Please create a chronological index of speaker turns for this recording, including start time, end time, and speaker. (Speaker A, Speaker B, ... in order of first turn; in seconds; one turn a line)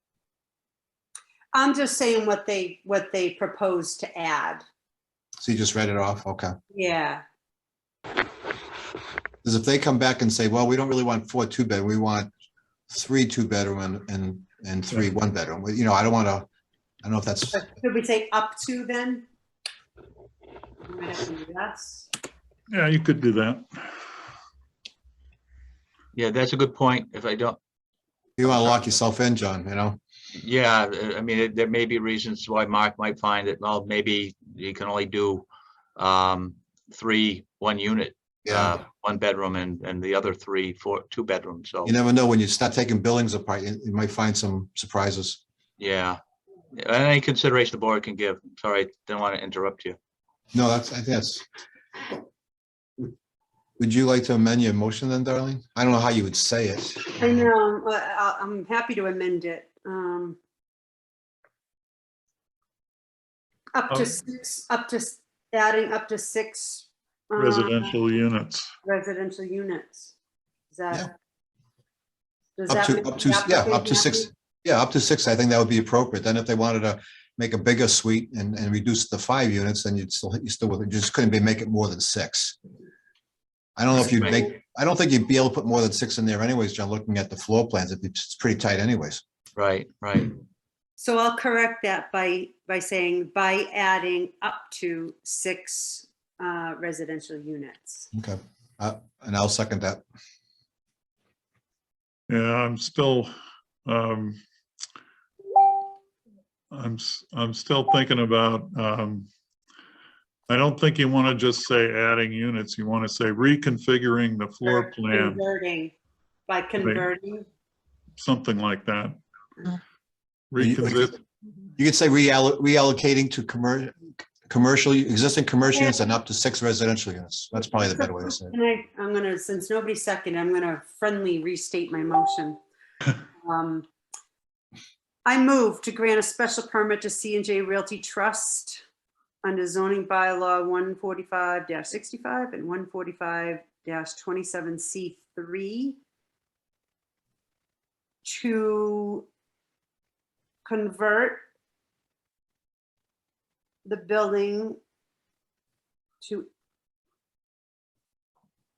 Speaker A: 1.5-4.6
Speaker B: 5.4-6.5
Speaker A: 6.7-7.2
Speaker B: 9.4-12.3
Speaker B: 12.9-16.5
Speaker B: 17.0-17.7
Speaker A: 17.5-19.2
Speaker A: 20.9-22.1
Speaker C: 22.7-23.6
Speaker D: 26.1-27.6
Speaker B: 28.4-30.0
Speaker D: 30.4-35.5
Speaker D: 36.0-41.9
Speaker B: 38.5-38.8
Speaker B: 41.9-45.4
Speaker D: 45.8-46.2
Speaker D: 46.8-50.0
Speaker B: 50.5-51.4
Speaker B: 53.8-57.5
Speaker A: 57.2-60.4
Speaker A: 63.7-67.9
Speaker C: 67.4-68.7
Speaker A: 68.8-70.1
Speaker A: 70.7-71.1
Speaker A: 72.6-74.3
Speaker B: 72.7-82.6
Speaker B: 83.8-89.2
Speaker D: 84.0-84.4
Speaker D: 89.6-90.4
Speaker A: 91.0-98.1
Speaker B: 98.1-100.0
Speaker C: 102.3-103.3
Speaker C: 103.8-104.4
Speaker C: 106.7-109.3
Speaker C: 110.5-115.4
Speaker A: 114.6-115.9
Speaker A: 116.5-117.5
Speaker C: 116.8-117.1
Speaker C: 118.2-119.2
Speaker C: 120.5-121.2
Speaker B: 120.6-121.1
Speaker B: 121.8-128.6
Speaker A: 127.8-132.6
Speaker A: 133.4-133.9
Speaker A: 135.2-138.8
Speaker A: 139.4-146.0
Speaker A: 148.2-149.3
Speaker A: 150.7-151.4
Speaker A: 153.8-154.8
Speaker A: 156.2-156.5